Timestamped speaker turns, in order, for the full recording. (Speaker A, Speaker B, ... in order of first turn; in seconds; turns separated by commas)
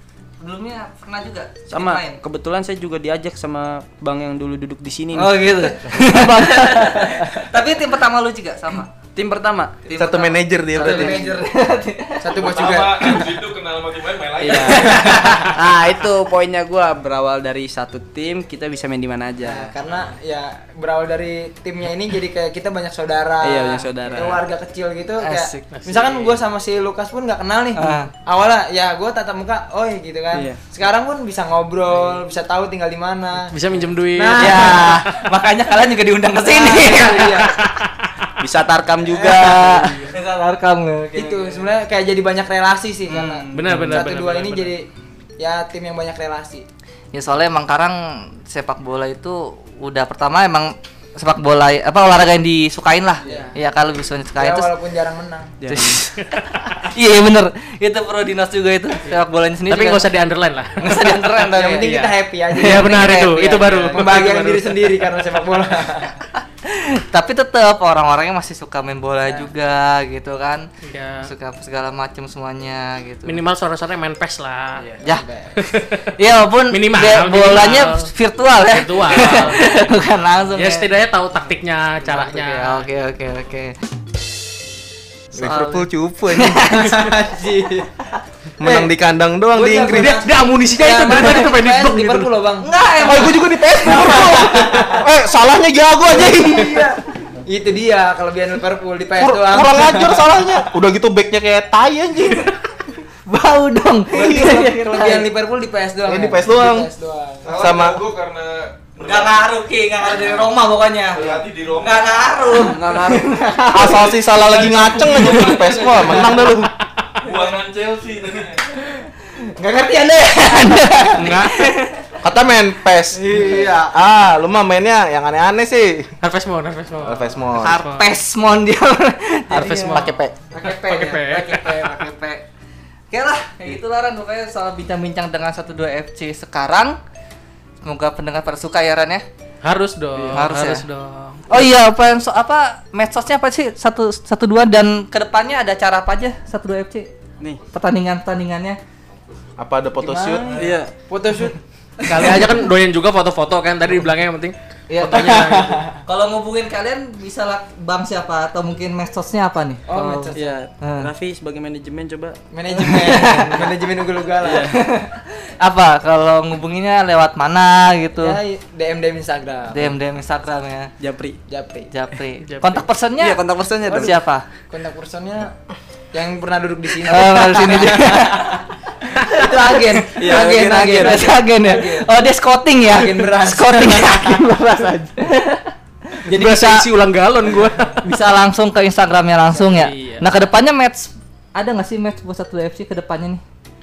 Speaker A: 0.4-2.2, Speaker B: 1.7-7.3, Speaker A: 5.2-8.9, Speaker B: 9.2-9.8, Speaker A: 9.9-12.4, Speaker C: 10.0-11.2, Speaker D: 10.8-11.4, Speaker D: 12.2-13.3, Speaker E: 12.3-15.3, Speaker B: 14.4-19.7, Speaker D: 14.8-15.5, Speaker A: 14.8-15.5, Speaker D: 19.4-33.6, Speaker B: 23.4-24.4, Speaker A: 25.2-25.7, Speaker F: 25.7-26.3, Speaker A: 27.8-28.1, Speaker B: 30.3-30.6, Speaker F: 33.5-35.2, Speaker D: 34.1-35.0, Speaker A: 34.4-37.5, Speaker D: 36.4-37.6, Speaker F: 37.6-38.1, Speaker B: 38.4-40.1, Speaker D: 39.1-40.0, Speaker A: 39.8-41.7, Speaker D: 41.2-44.9, Speaker A: 43.1-43.8, Speaker F: 43.5-44.7, Speaker B: 43.7-44.0, Speaker D: 45.4-46.7, Speaker A: 47.1-54.7, Speaker D: 53.2-53.6, Speaker D: 54.4-55.6, Speaker B: 55.6-56.0, Speaker A: 55.7-56.2, Speaker F: 56.2-56.8, Speaker A: 56.8-60.1, Speaker F: 59.7-64.8, Speaker A: 60.8-61.9, Speaker D: 61.5-63.2, Speaker A: 62.6-64.1, Speaker D: 63.9-66.2, Speaker A: 66.4-70.7, Speaker F: 70.8-71.3, Speaker A: 71.2-73.4, Speaker F: 73.3-74.9, Speaker B: 74.8-75.0, Speaker D: 75.0-75.7, Speaker F: 75.6-76.2, Speaker A: 76.2-80.9, Speaker F: 76.7-78.1, Speaker F: 78.7-79.8, Speaker F: 80.5-82.9, Speaker A: 82.0-83.8, Speaker A: 85.3-87.1, Speaker C: 85.3-86.7, Speaker D: 86.6-88.0, Speaker C: 88.6-90.2, Speaker D: 88.6-88.9, Speaker D: 89.5-92.7, Speaker F: 89.9-92.3, Speaker A: 92.6-94.8, Speaker C: 93.0-96.9, Speaker D: 93.8-95.1, Speaker D: 96.1-100.6, Speaker C: 99.2-102.5, Speaker A: 103.3-105.3, Speaker D: 104.1-107.5, Speaker C: 104.2-104.5, Speaker C: 106.0-106.9, Speaker E: 107.4-109.5, Speaker C: 107.5-108.0, Speaker A: 109.0-116.2, Speaker E: 111.1-112.6, Speaker B: 112.6-113.3, Speaker C: 113.7-116.7, Speaker E: 114.2-116.6, Speaker E: 117.2-118.6, Speaker A: 117.2-117.5, Speaker A: 119.0-122.1, Speaker F: 121.2-121.5, Speaker C: 122.2-126.1, Speaker A: 123.3-123.7, Speaker D: 123.3-123.8, Speaker B: 123.4-123.7, Speaker F: 126.2-128.1, Speaker C: 127.0-127.8, Speaker A: 127.5-132.4, Speaker F: 129.5-131.9, Speaker C: 129.9-130.3, Speaker A: 133.1-137.0, Speaker A: 137.8-139.3, Speaker F: 139.6-141.7, Speaker B: 140.1-140.5, Speaker A: 140.3-140.8, Speaker A: 141.5-147.1, Speaker A: 147.7-148.8, Speaker E: 149.2-149.6, Speaker C: 149.6-150.6, Speaker D: 150.0-151.6, Speaker A: 150.4-150.7, Speaker B: 150.6-150.9, Speaker A: 152.0-152.7, Speaker F: 152.0-155.9, Speaker A: 154.9-155.4, Speaker D: 155.0-156.0, Speaker A: 156.1-161.1, Speaker D: 159.9-160.6, Speaker B: 160.3-163.6, Speaker D: 162.5-164.7, Speaker A: 163.2-163.5, Speaker B: 164.4-164.8, Speaker A: 164.7-168.4, Speaker D: 168.2-170.0, Speaker A: 169.7-170.9, Speaker B: 171.0-171.4, Speaker D: 171.5-171.9, Speaker A: 171.9-174.5, Speaker F: 172.4-172.9, Speaker B: 173.2-174.1, Speaker D: 174.7-175.6, Speaker D: 176.1-182.1, Speaker A: 177.1-178.6, Speaker A: 179.4-186.9, Speaker B: 180.2-181.4, Speaker D: 182.9-184.4, Speaker F: 186.3-188.1, Speaker A: 188.0-193.4, Speaker F: 189.5-190.3